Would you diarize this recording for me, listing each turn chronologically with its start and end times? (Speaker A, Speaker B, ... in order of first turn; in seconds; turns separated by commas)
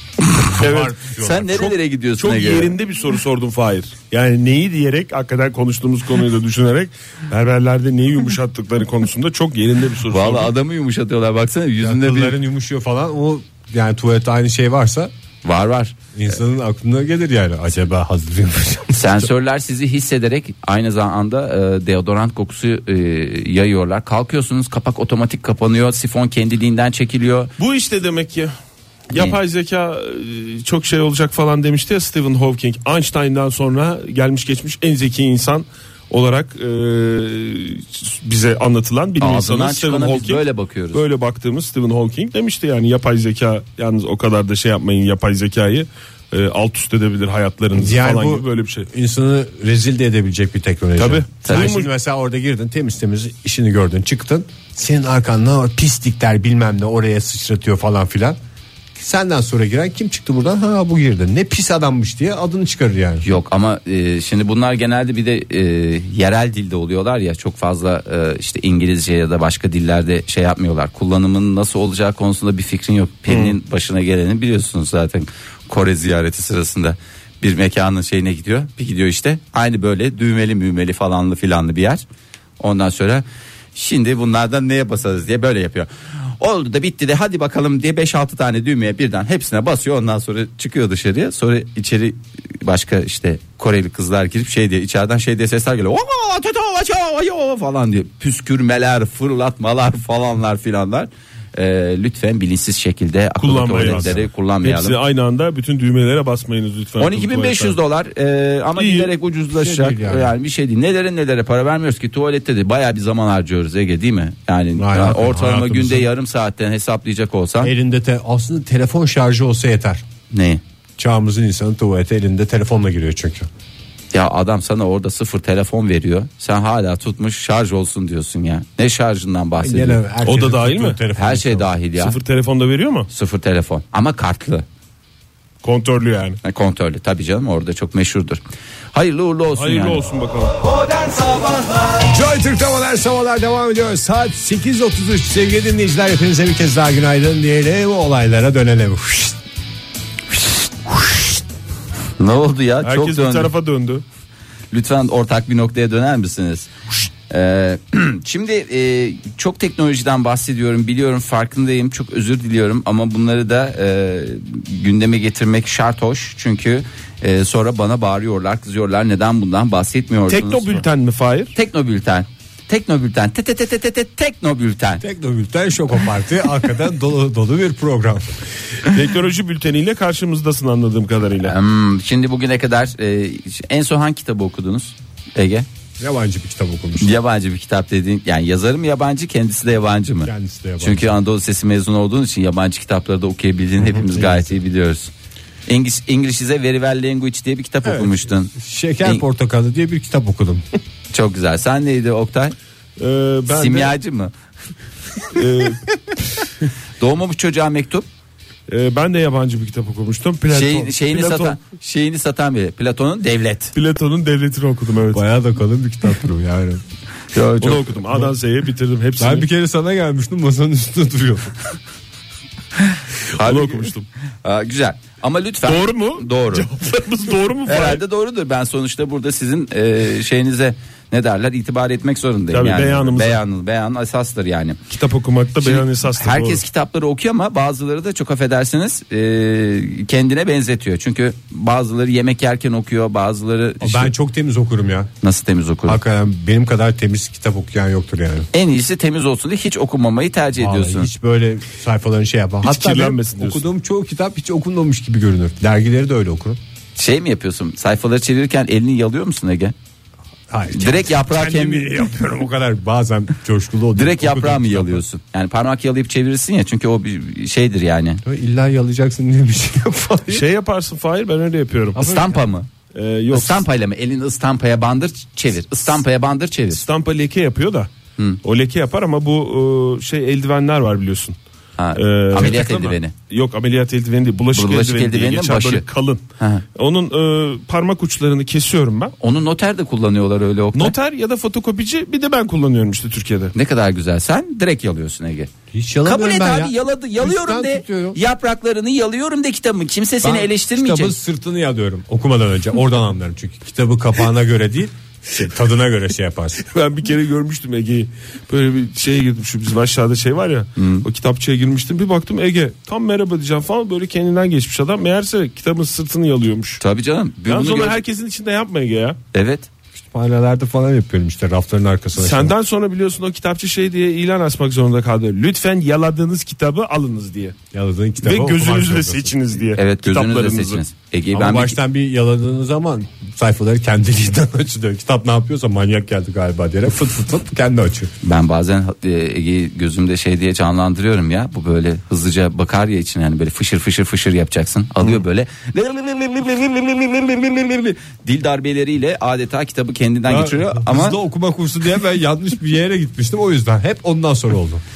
Speaker A: 0.5-1.7, Speaker B: 0.5-1.0, Speaker C: 1.2-2.8, Speaker B: 1.5-10.5, Speaker C: 10.1-12.4, Speaker A: 11.8-15.1, Speaker C: 15.4-16.0, Speaker A: 16.1-19.3, Speaker C: 18.9-27.5, Speaker B: 27.6-28.5, Speaker B: 29.1-48.9, Speaker C: 39.2-41.0, Speaker A: 47.7-58.4, Speaker B: 51.0-51.9, Speaker C: 51.4-51.7, Speaker A: 59.0-63.3, Speaker C: 63.2-82.0, Speaker B: 73.3-73.6, Speaker C: 82.6-105.0, Speaker B: 103.4-107.8, Speaker A: 103.8-104.2, Speaker C: 107.0-117.7, Speaker B: 108.8-109.1, Speaker A: 109.5-110.3, Speaker A: 114.8-116.1, Speaker A: 117.6-120.0, Speaker C: 120.3-120.6, Speaker A: 121.0-123.5, Speaker C: 124.1-130.0, Speaker A: 129.6-131.7, Speaker B: 130.2-131.0, Speaker C: 131.2-132.2, Speaker B: 132.0-133.1, Speaker C: 133.1-134.7, Speaker B: 135.6-136.4, Speaker C: 136.4-138.4, Speaker C: 138.9-140.1, Speaker B: 139.6-140.6, Speaker A: 141.9-149.4, Speaker A: 150.8-151.4, Speaker C: 152.2-153.5, Speaker B: 152.8-154.0, Speaker C: 154.7-156.7, Speaker C: 157.3-170.8, Speaker B: 170.3-171.5, Speaker C: 171.5-175.0, Speaker A: 175.0-178.4, Speaker B: 178.8-181.6, Speaker C: 181.4-185.7, Speaker A: 186.0-187.2, Speaker C: 187.0-195.1, Speaker A: 190.2-191.1, Speaker A: 193.8-194.6, Speaker C: 195.7-198.5, Speaker A: 197.9-200.6, Speaker C: 201.1-202.6, Speaker B: 203.0-203.9, Speaker C: 203.5-204.3, Speaker B: 205.3-205.8, Speaker C: 207.0-208.1, Speaker B: 208.7-211.6, Speaker C: 210.5-213.8, Speaker B: 213.8-215.2, Speaker A: 215.1-216.8, Speaker C: 217.3-218.0, Speaker B: 217.6-219.5, Speaker A: 219.2-221.6, Speaker C: 223.3-223.9, Speaker B: 223.4-224.1, Speaker C: 224.4-226.7, Speaker B: 225.7-228.0, Speaker C: 227.7-234.8, Speaker B: 232.5-233.4, Speaker B: 234.9-236.6, Speaker C: 235.6-244.1, Speaker A: 243.8-245.1, Speaker C: 245.2-246.0, Speaker A: 245.9-248.5, Speaker C: 248.5-251.1, Speaker A: 250.6-256.6, Speaker B: 252.6-253.6, Speaker C: 257.0-259.7, Speaker A: 260.5-265.0, Speaker C: 260.7-261.9, Speaker C: 263.9-268.2, Speaker A: 268.2-270.5, Speaker B: 270.3-272.1, Speaker A: 272.0-272.4, Speaker C: 272.0-272.7, Speaker B: 272.9-273.6, Speaker C: 273.3-276.8, Speaker B: 276.7-277.9, Speaker B: 278.4-281.4, Speaker C: 281.8-283.1, Speaker B: 282.0-282.7, Speaker A: 282.4-283.0, Speaker B: 283.3-289.1, Speaker C: 284.5-285.8, Speaker C: 286.4-286.6, Speaker C: 289.2-291.0, Speaker B: 290.7-293.5, Speaker C: 293.5-295.5, Speaker A: 295.7-298.2, Speaker C: 296.1-301.2, Speaker A: 300.2-306.6, Speaker B: 306.6-316.8, Speaker C: 310.8-311.1, Speaker C: 316.8-318.0, Speaker B: 317.5-319.2, Speaker C: 319.3-319.7, Speaker A: 320.0-322.5, Speaker B: 322.2-327.6, Speaker A: 327.7-329.4, Speaker B: 328.2-330.8, Speaker C: 329.8-331.8, Speaker A: 331.3-338.1, Speaker C: 338.2-351.2, Speaker A: 350.3-354.8